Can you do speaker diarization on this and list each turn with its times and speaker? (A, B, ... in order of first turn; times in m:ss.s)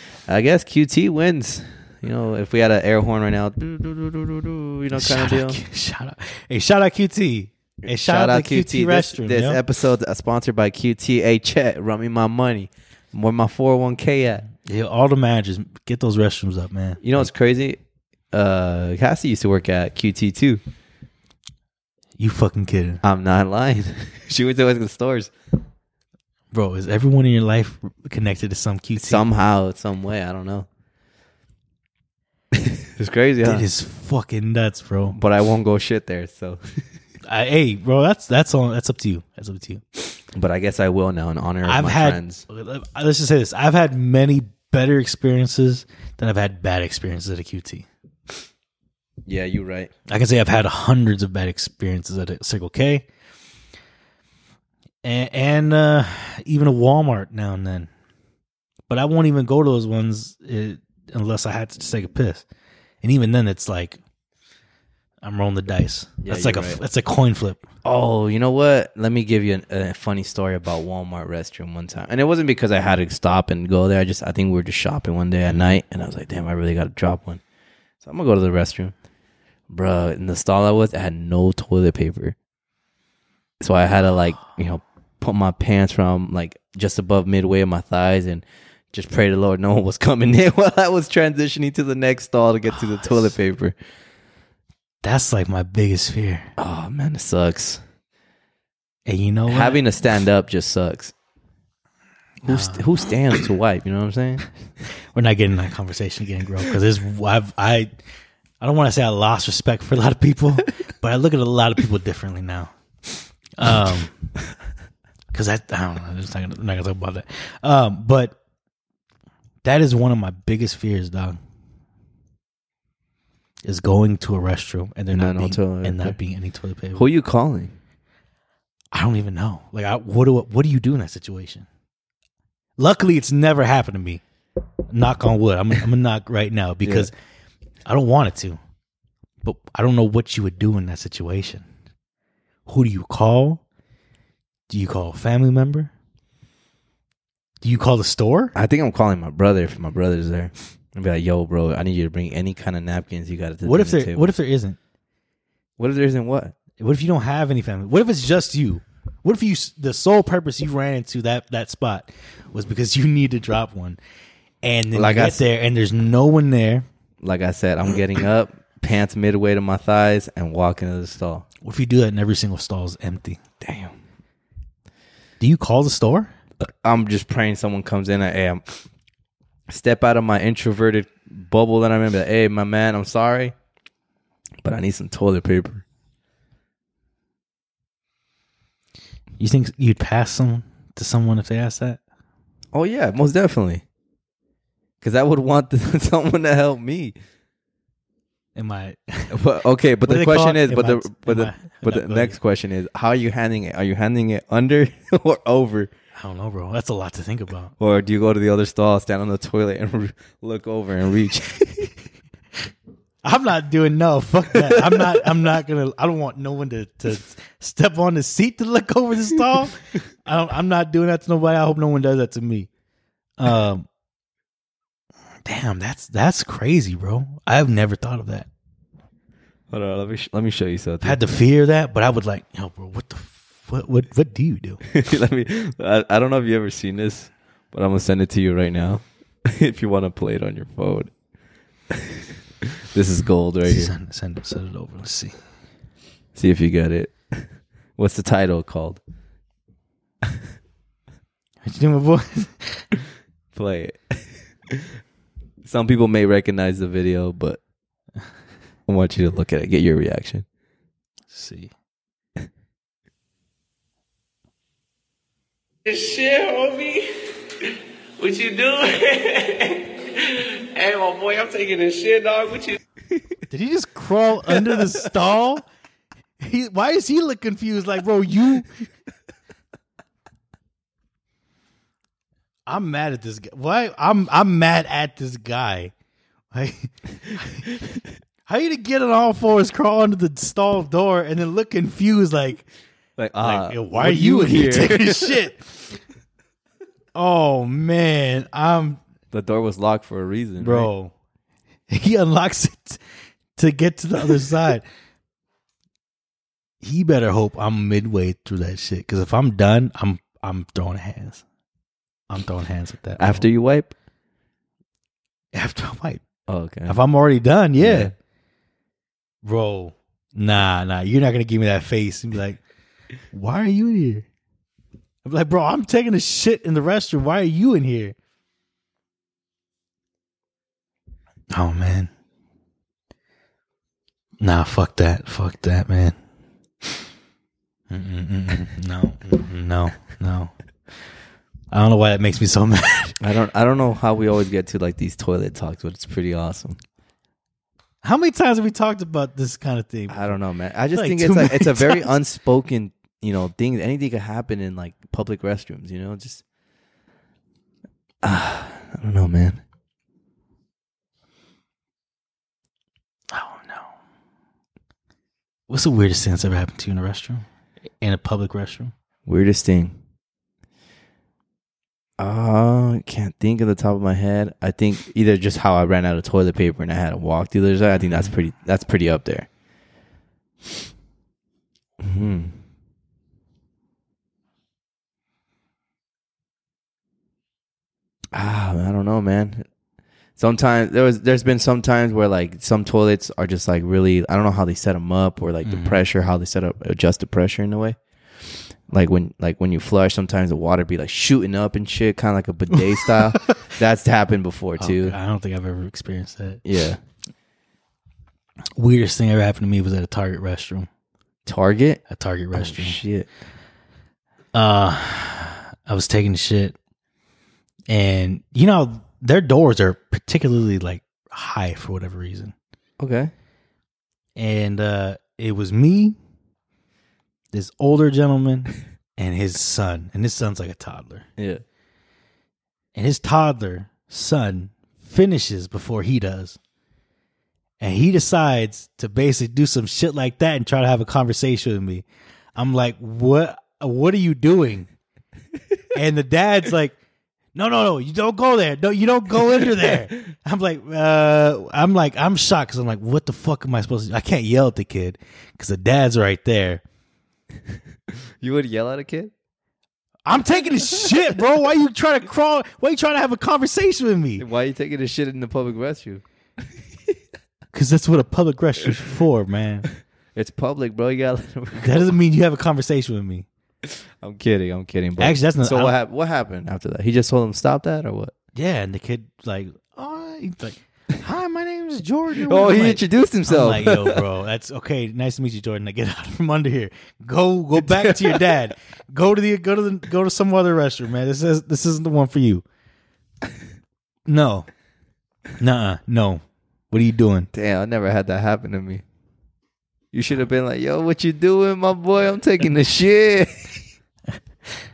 0:00.3-0:05.6 A
0:04.9-0:09.6 B
0:07.8-0:14.5 A
0:14.6-0:17.2 B
0:17.0-0:17.8 A
0:18.3-0:20.6 A
0:22.2-0:23.0 B
0:23.0-0:25.3 A
0:26.5-0:29.2 B
0:29.0-0:30.7 A
0:32.5-0:33.7 A
0:33.4-0:35.2 B
0:35.1-0:36.6 A
0:37.3-0:40.2 B
0:40.4-0:42.4 A
0:41.6-0:47.9 B
0:49.3-0:49.9 A
0:50.1-0:53.1 B
0:55.0-0:57.9 B
0:58.9-1:02.4 B
1:03.0-1:04.0 B
1:05.2-1:07.6 B
1:06.2-1:06.8 A
1:07.8-1:17.4 A
1:15.5-1:15.7 B
1:18.0-1:18.9 A
1:19.7-1:22.4 A
1:23.6-1:33.8 A
1:35.0-1:36.5 B
1:36.6-1:37.8 A
1:39.1-1:39.8 B
1:39.5-1:41.1 A
1:42.4-1:43.0 B
1:42.5-1:44.4 A
1:45.1-1:47.9 B
1:48.6-1:52.7 B
1:53.6-1:54.2 B
1:55.3-1:58.4 B
1:59.6-2:01.4 B
2:03.6-2:07.0 B
2:05.1-2:06.2 A
2:07.0-2:07.7 A
2:08.9-2:11.7 B
2:12.8-2:14.2 B
2:14.9-2:17.1 B
2:16.8-2:17.1 A
2:17.9-2:18.6 B
2:19.4-2:21.6 B
2:22.7-2:23.6 B
2:24.7-2:25.9 B
2:27.6-2:28.5 B
2:28.6-2:34.3 A
2:33.6-2:34.8 B
2:35.8-2:36.6 A
2:36.8-2:44.0 B
2:44.6-2:46.9 B
2:44.9-2:45.4 A
2:47.2-2:51.5 A
2:51.6-2:53.4 B
2:53.6-2:53.9 A
2:55.4-2:56.3 B
2:56.6-2:58.7 A
2:59.7-3:03.5 A
3:04.6-3:05.8 A
3:09.4-3:12.0 B
3:12.7-3:13.8 A
3:15.0-3:17.1 A
3:18.6-3:19.4 B
3:19.3-3:25.9 A
3:20.0-3:22.4 B
3:26.2-3:27.7 B
3:27.8-3:31.9 A
3:33.2-3:42.7 B
3:34.6-3:35.2 A
3:43.4-3:43.9 B
3:45.5-3:48.5 B
3:49.7-3:51.2 A
3:51.0-3:54.8 B
3:54.9-4:01.1 A
4:02.9-4:03.9 A
4:03.7-4:05.4 B
4:06.4-4:07.4 A
4:08.0-4:09.0 A
4:11.6-4:12.9 B
4:13.6-4:14.9 A
4:15.6-4:17.6 A
4:18.9-4:20.4 A
4:21.3-4:21.7 B
4:25.9-4:27.1 C
4:27.6-4:32.8 C
4:33.5-4:35.6 B
4:36.4-4:38.7 B
4:42.7-4:45.9 B
4:46.5-4:47.8 B
4:48.5-4:52.7 B
4:53.2-4:55.4 A
4:53.4-4:55.8 B
4:57.2-4:59.0 B
4:59.3-5:00.9 A
5:00.6-5:01.1 B
5:01.9-5:03.0 B
5:03.6-5:04.8 B
5:06.8-5:11.4 B
5:12.3-5:13.5 B
5:13.2-5:13.9 A
5:15.5-5:16.2 B
5:16.5-5:17.0 A
5:16.9-5:18.1 B
5:17.8-5:18.1 A
5:19.4-5:22.6 B
5:23.3-5:24.3 B
5:25.2-5:28.2 B
5:31.5-5:32.1 B
5:34.4-5:36.2 B
5:37.9-5:40.5 B
5:41.7-5:43.2 B
5:43.2-5:46.8 A
5:48.0-5:50.3 B
5:50.1-5:56.4 A
5:51.0-5:52.0 B
5:58.2-5:59.6 A
6:03.3-6:04.0 B
6:05.7-6:07.4 B
6:08.0-6:08.9 B
6:09.3-6:10.0 A
6:12.2-6:19.5 A
6:22.0-6:22.5 A
6:28.3-6:29.7 A
6:30.4-6:38.0 A
6:35.6-6:36.0 B
6:38.9-6:45.2 A
6:42.8-6:43.6 B
6:44.8-6:46.6 B
6:46.6-6:47.0 A
6:48.8-6:50.9 B
6:51.5-6:53.3 A
6:52.1-6:53.0 B
6:54.5-6:56.8 B
6:57.9-7:02.5 B
7:03.0-7:03.3 A
7:04.4-7:06.2 B
7:07.5-7:11.3 B
7:11.4-7:11.6 A
7:13.0-7:16.6 B
7:17.8-7:22.0 B
7:22.6-7:24.9 B
7:25.9-7:27.0 B
7:27.5-7:36.8 B
7:38.4-7:39.3 A
7:40.3-7:44.4 B
7:44.4-7:46.2 A
7:47.7-7:49.9 B
7:50.4-7:52.1 A
7:51.8-7:53.5 B
7:54.2-7:58.3 A
7:55.2-7:55.9 B
7:58.6-8:12.6 B
8:02.4-8:04.2 A
8:07.9-8:08.4 A
8:14.3-8:14.7 B
8:15.6-8:17.5 B
8:17.5-8:19.0 A
8:20.1-8:23.7 A